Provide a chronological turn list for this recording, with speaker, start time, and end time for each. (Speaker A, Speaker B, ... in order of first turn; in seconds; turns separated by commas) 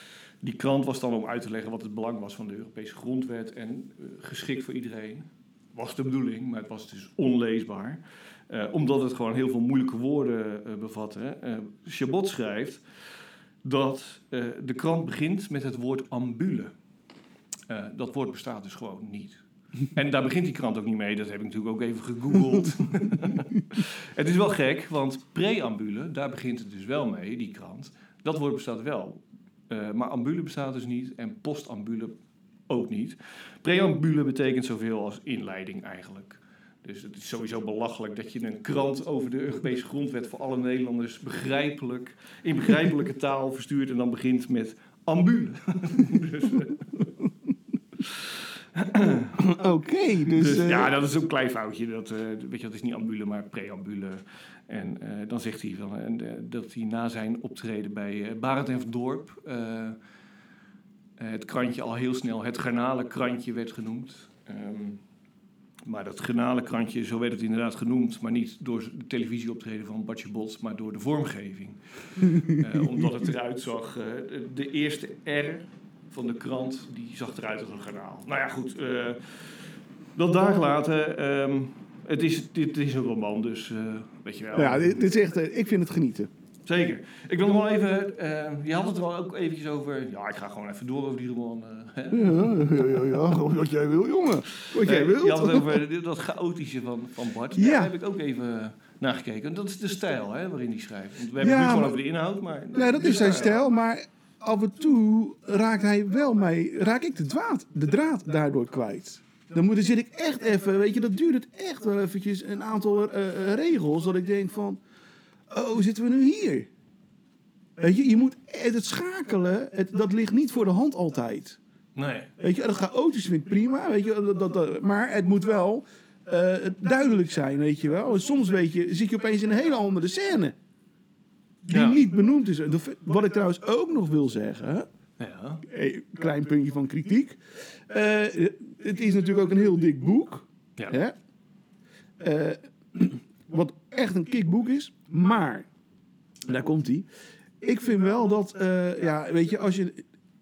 Speaker A: 0.4-12.8, Speaker A: 13.6-16.7, Speaker A: 17.7-32.2, Speaker A: 32.7-46.8, Speaker A: 48.7-49.4, Speaker B: 49.4-50.9, Speaker A: 50.3-60.0, Speaker A: 61.2-65.0, Speaker A: 65.8-85.0, Speaker B: 72.5-73.0, Speaker B: 84.5-86.3, Speaker A: 86.7-92.9, Speaker B: 92.1-95.8, Speaker A: 94.6-103.6, Speaker B: 97.5-97.9, Speaker B: 101.4-102.0, Speaker B: 102.7-114.8, Speaker B: 115.5-116.7, Speaker B: 117.8-121.6, Speaker A: 121.9-122.3, Speaker B: 122.4-130.5, Speaker B: 131.6-134.9, Speaker A: 131.7-132.0, Speaker A: 135.2-135.6, Speaker B: 135.6-141.1, Speaker B: 142.2-145.7, Speaker B: 146.4-147.1, Speaker B: 147.6-150.0